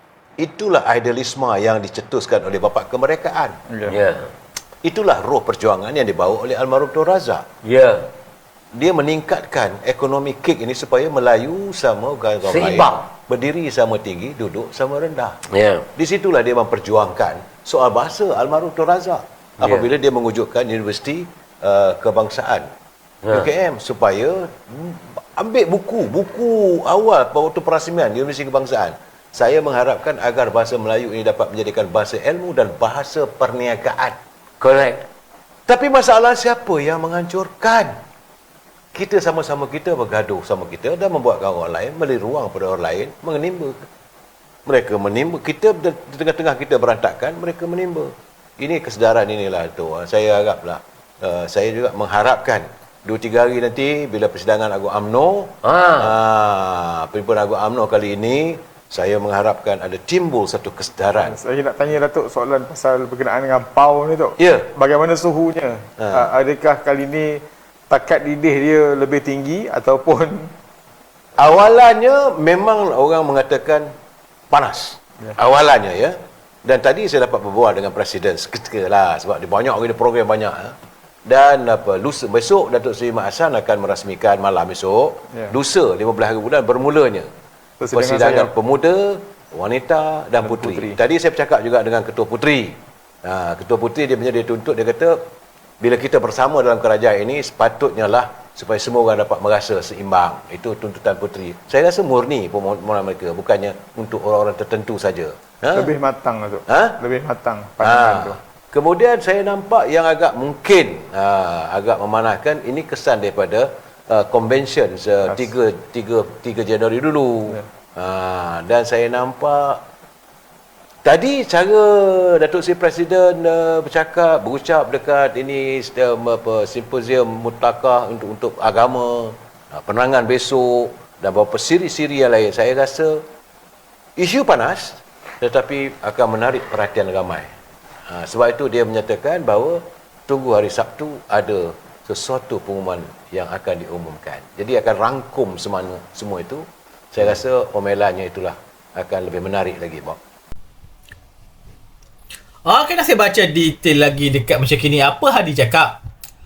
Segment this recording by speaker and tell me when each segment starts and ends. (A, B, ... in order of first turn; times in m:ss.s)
0:00.4-0:03.6 A
0:03.7-0:04.0 B
0:03.9-0:04.3 C
0:04.8-0:07.4 A
0:07.6-0:08.1 C
0:08.8-0:15.4 A
0:12.5-0:13.0 C
0:15.5-0:15.9 C
0:16.0-0:22.7 A
0:19.6-0:19.9 C
0:23.2-0:23.5 C
0:23.3-0:34.2 A
0:34.6-0:35.0 C
0:35.7-0:38.0 A
0:38.9-0:43.9 A
0:44.7-1:01.4 A
0:55.6-0:56.1 C
1:01.2-1:10.5 B
1:04.4-1:04.7 A
1:06.0-1:06.2 A
1:11.4-1:13.9 A
1:14.5-1:27.3 A
1:27.8-1:28.5 B
1:27.9-1:35.2 A
1:30.4-1:31.0 B
1:35.8-1:45.9 A
1:45.7-1:48.4 B
1:46.7-1:47.0 A
1:47.8-1:59.8 A
2:01.0-2:13.2 A
2:14.2-2:17.5 A
2:18.1-2:30.2 A
2:32.7-2:36.0 D